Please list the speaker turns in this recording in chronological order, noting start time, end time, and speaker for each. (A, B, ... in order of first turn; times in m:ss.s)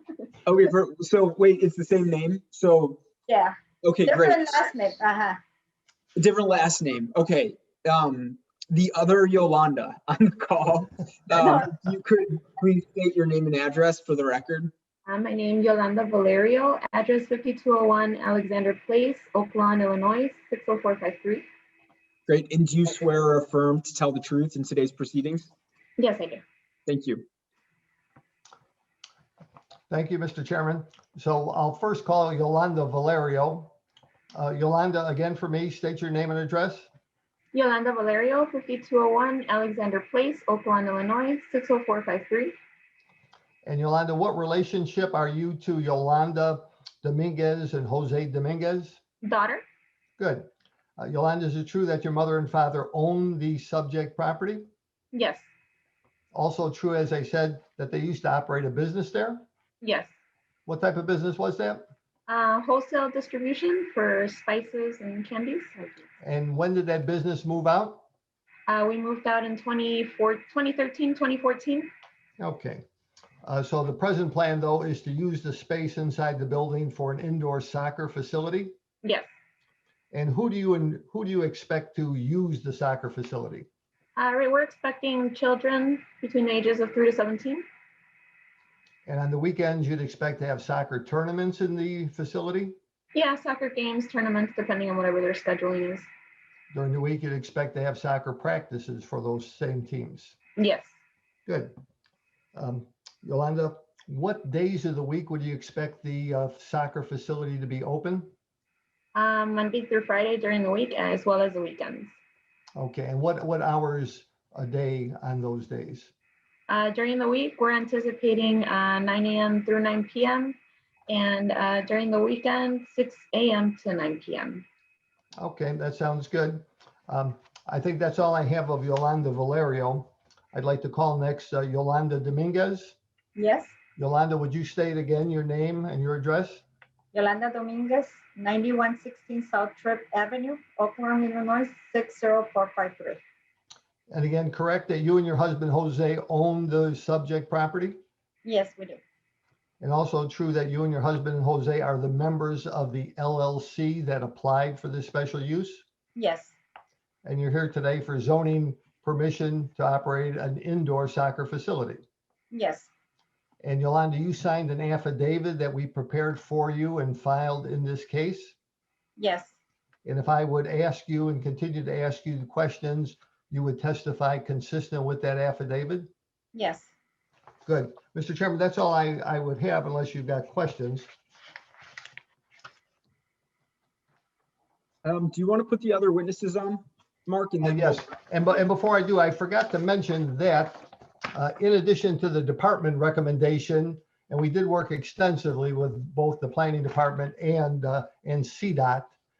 0:00.4-0:03.0 A
0:03.3-0:05.4 B
0:03.8-0:04.7 A
0:06.2-0:14.7 A
0:11.3-0:11.8 B
0:15.0-0:21.5 C
0:22.3-0:25.5 A
0:26.0-0:26.4 C
0:26.9-0:27.2 A
0:29.9-0:33.7 D
0:34.3-0:36.9 D
0:37.5-0:42.5 C
0:43.6-0:49.0 D
0:49.2-0:49.6 C
0:50.2-0:54.7 D
0:55.1-0:55.5 C
0:56.3-0:59.4 D
0:59.8-1:00.1 C
1:00.6-1:01.8 D
1:02.3-1:06.0 C
1:06.2-1:08.0 D
1:08.7-1:11.9 C
1:12.4-1:12.8 D
1:13.4-1:18.7 D
1:19.0-1:19.3 C
1:20.1-1:23.7 D
1:24.2-1:27.6 C
1:29.0-1:32.8 D
1:33.1-1:36.1 C
1:36.7-1:40.4 D
1:40.6-1:40.9 C
1:41.4-1:41.7 D
1:42.5-1:48.3 D
1:49.1-1:52.1 C
1:52.8-1:56.1 D
1:56.7-2:00.6 C
2:01.1-2:04.6 C
2:05.4-2:13.0 D
2:13.4-2:13.7 B
2:14.0-2:16.6 D
2:17.1-2:23.2 B
2:24.1-2:28.0 D
2:28.4-2:29.0 B
2:29.8-2:35.8 D
2:36.2-2:36.6 B
2:37.2-2:42.0 D
2:42.5-2:42.9 B
2:43.6-2:48.5 D
2:49.2-2:49.5 B
2:50.0-2:56.1 D
2:56.5-2:56.9 B
2:57.7-3:01.1 D
3:05.0-3:08.1 A
3:07.6-3:19.1 D